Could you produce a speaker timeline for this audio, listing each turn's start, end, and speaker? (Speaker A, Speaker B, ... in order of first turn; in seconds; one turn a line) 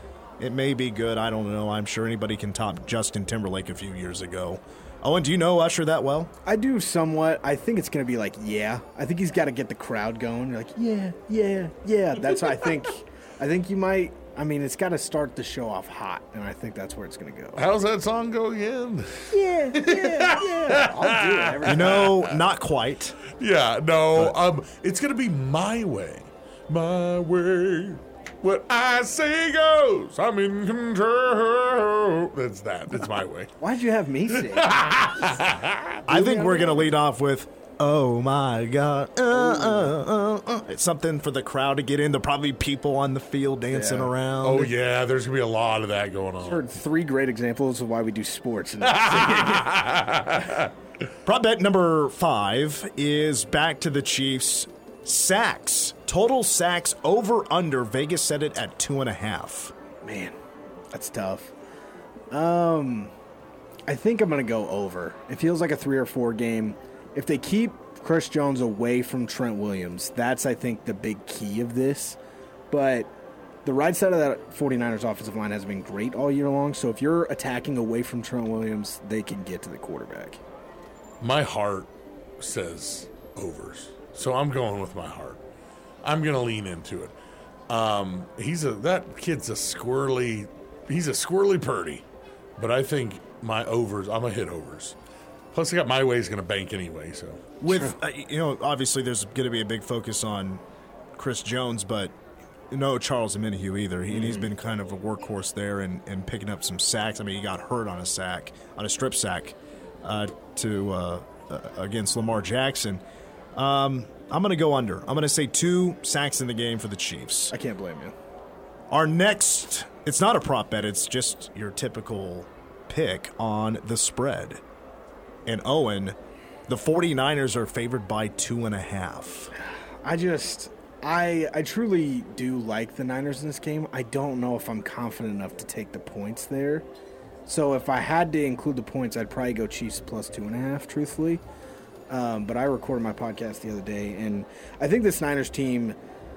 Speaker A: 0.4-6.3
Speaker B: 6.5-17.6
Speaker C: 17.6-22.4
Speaker B: 19.3-22.1
Speaker A: 21.6-23.2
Speaker C: 23.3-33.5
Speaker B: 33.6-34.7
Speaker C: 34.3-36.1
Speaker A: 36.1-44.7
Speaker B: 36.1-36.9
Speaker B: 39.3-40.0
Speaker B: 43.7-44.1
Speaker C: 44.4-46.6
Speaker B: 46.4-49.7
Speaker C: 48.8-50.7
Speaker A: 51.2-59.7
Speaker B: 60.0-60.4
Speaker B: 60.9-61.5
Speaker B: 62.3-63.1
Speaker B: 63.9-72.2
Speaker B: 72.7-73.1
Speaker B: 73.6-80.4
Speaker C: 81.2-85.4
Speaker C: 86.0-87.1
Speaker C: 87.7-92.0
Speaker C: 92.6-94.9
Speaker C: 95.5-97.4
Speaker A: 97.6-100.6
Speaker A: 101.1-102.1
Speaker A: 102.7-113.0
Speaker A: 113.5-117.5
Speaker B: 117.5-118.1
Speaker A: 118.9-124.6
Speaker A: 125.5-126.2
Speaker A: 126.7-129.5
Speaker B: 129.7-136.8
Speaker B: 137.4-141.4
Speaker B: 142.1-146.0